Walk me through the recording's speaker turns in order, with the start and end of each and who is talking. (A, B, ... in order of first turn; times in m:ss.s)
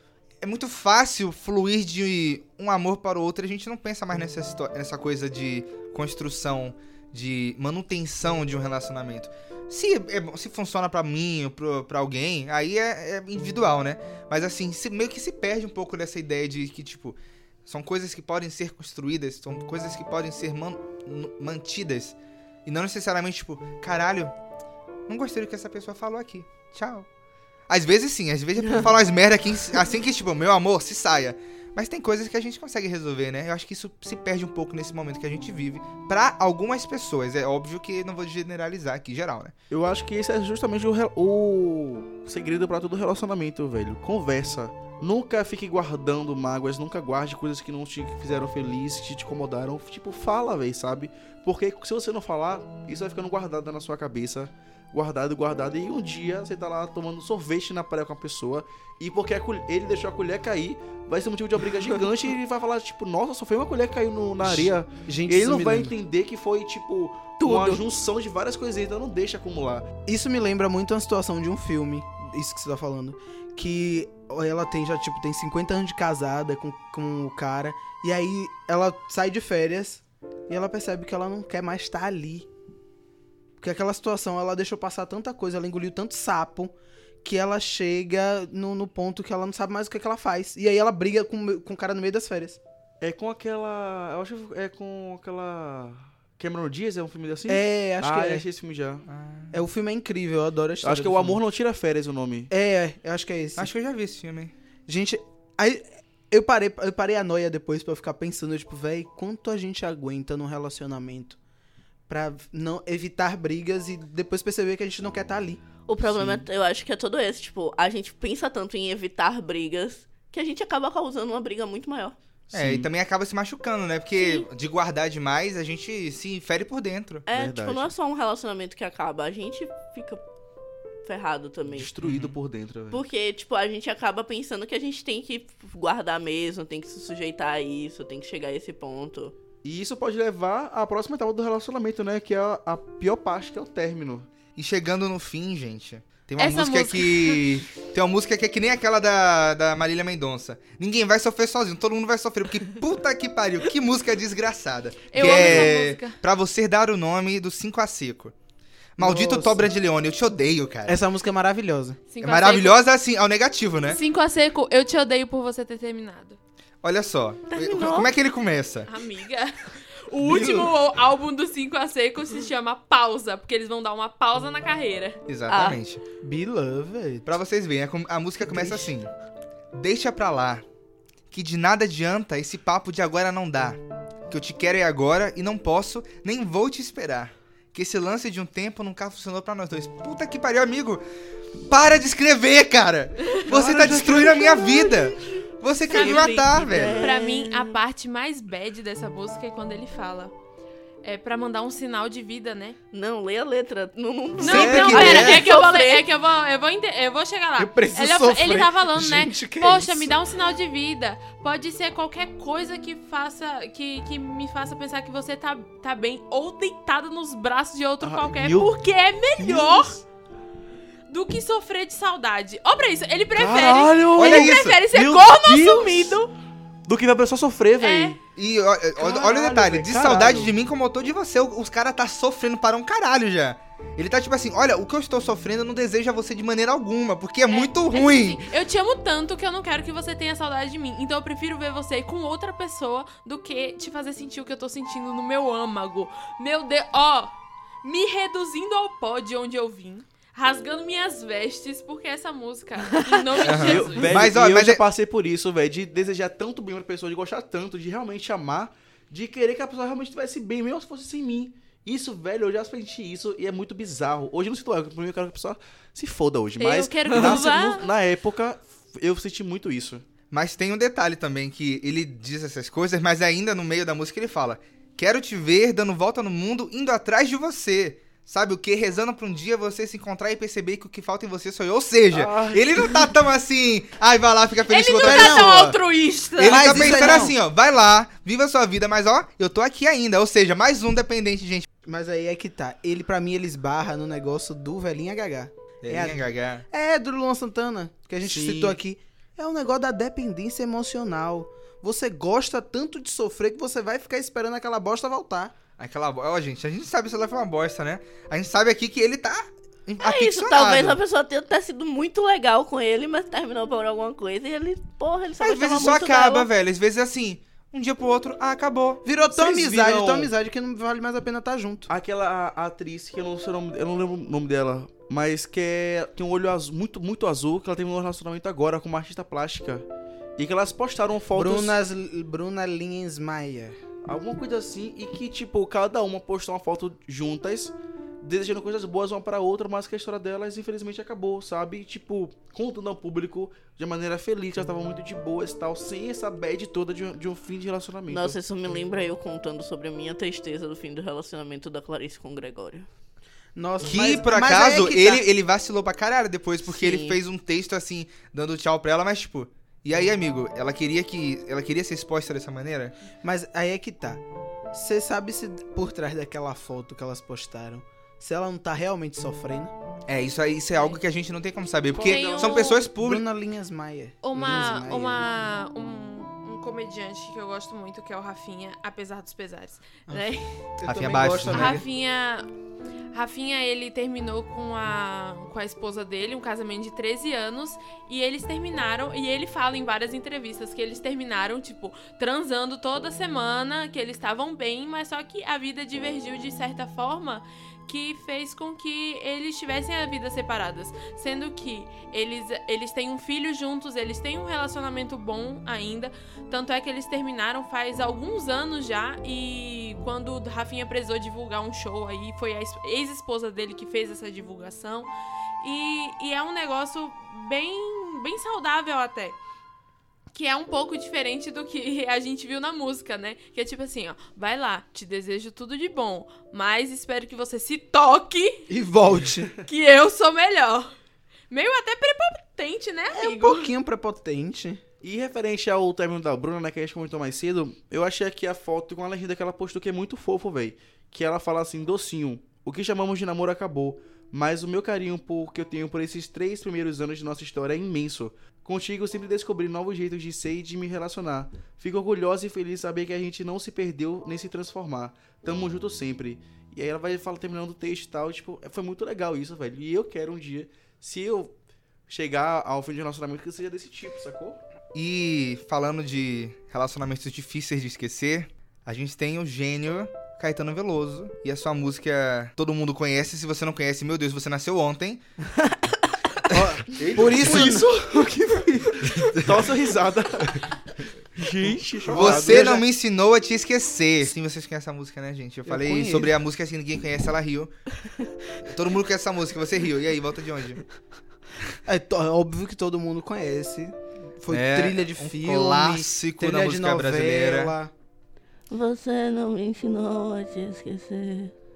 0:00.4-0:24.3 A
0:25.1-0:27.1 A
0:27.7-0:39.5 A
0:39.7-1:09.9 B
1:04.4-1:06.0 C
1:07.4-1:07.8 D
1:10.1-1:22.5 C
1:23.6-1:32.6 C
1:33.0-1:39.0 B
1:37.5-1:38.4 C
1:39.1-1:39.6 A
1:39.5-1:41.4 C
1:40.8-1:42.5 B
1:42.5-1:43.7 C
1:43.6-1:44.5 A
1:44.9-1:51.4 C
1:52.1-1:55.6 C
1:55.9-2:02.2 D
1:56.1-1:56.4 B
2:02.5-2:02.9 B
2:02.5-2:07.3 A
2:07.3-2:10.2 D
2:07.3-2:07.9 B
2:11.0-2:11.9 D
2:11.7-2:13.0 B
2:12.0-2:12.4 A
2:12.9-2:19.4 D
2:19.6-2:24.3 B
2:24.6-2:38.3 A
2:26.4-2:27.6 E
2:35.1-2:36.2 E
2:35.2-2:35.7 C
2:39.0-2:41.0 A
2:39.0-2:39.7 C
2:40.9-2:42.0 C
2:42.1-2:42.8 E
2:42.2-2:44.0 A
2:43.9-2:46.4 E
2:46.8-2:48.9 A
2:47.5-2:48.1 D
2:48.9-2:55.2 E
2:50.2-2:50.7 C
2:55.3-2:56.0 A
2:55.5-2:55.8 D
2:56.2-2:57.3 C
2:57.3-2:59.1 A
2:58.5-2:58.9 C
2:59.7-3:00.6 A
3:01.3-3:03.8 A
3:04.3-3:11.0 A
3:11.7-3:17.1 A
3:13.5-3:15.1 B
3:15.9-3:20.3 E
3:15.9-3:17.8 D
3:21.0-3:22.8 E
3:22.9-3:26.1 D
3:24.4-3:40.0 E
3:24.4-3:25.4 A
3:24.9-3:25.3 C
3:27.6-3:30.2 C
3:38.0-3:38.7 B
3:39.4-3:40.0 B
3:41.1-3:46.3 E
3:43.4-3:46.2 B
3:44.2-3:44.8 A
3:46.9-3:48.2 B
3:47.8-3:48.2 E
3:48.4-3:58.5 A
3:49.0-3:50.6 B
3:57.5-4:14.2 E
4:13.3-4:30.1 B
4:13.4-4:14.8 A
4:26.6-4:27.9 E
4:30.3-4:45.8 A
4:42.1-4:43.1 B
4:44.7-4:47.3 E
4:45.0-4:45.7 C
4:46.4-4:51.7 A
4:46.4-4:47.4 C
4:51.8-5:05.5 C
4:55.8-4:56.6 A
4:58.2-4:58.8 B
5:05.8-5:11.0 A
5:10.0-5:16.5 D
5:15.4-5:19.0 A
5:19.0-5:21.9 C
5:19.3-5:20.3 B
5:21.9-5:31.8 B
5:31.3-5:33.8 C
5:34.0-5:48.4 B
5:48.1-5:52.9 D
5:53.6-5:55.2 C
5:53.8-6:03.0 A
5:56.6-5:57.2 D
6:03.2-6:09.7 C
6:10.1-6:13.2 A
6:12.0-6:12.9 E
6:12.0-6:12.6 B
6:12.8-6:15.2 C
6:14.2-6:20.5 E
6:20.1-6:21.8 C
6:20.9-6:21.8 A
6:21.5-6:22.5 E
6:23.1-6:55.1 E
6:55.6-6:59.4 E
7:00.3-7:08.7 E
7:08.7-7:09.5 C
7:09.6-7:10.9 E
7:11.5-7:13.7 E
7:13.1-7:14.8 C
7:15.0-7:41.6 B
7:42.1-7:44.6 B
7:44.9-7:55.2 A
7:56.5-7:57.9 C
7:56.9-8:00.8 B
7:57.4-7:57.7 A
7:59.1-7:59.6 A
8:01.4-8:02.8 B
8:02.1-8:02.8 C
8:02.1-8:07.8 A
8:05.7-8:06.4 C
8:08.6-8:10.8 A
8:11.9-8:17.9 C
8:14.5-8:17.7 A
8:18.7-8:21.5 D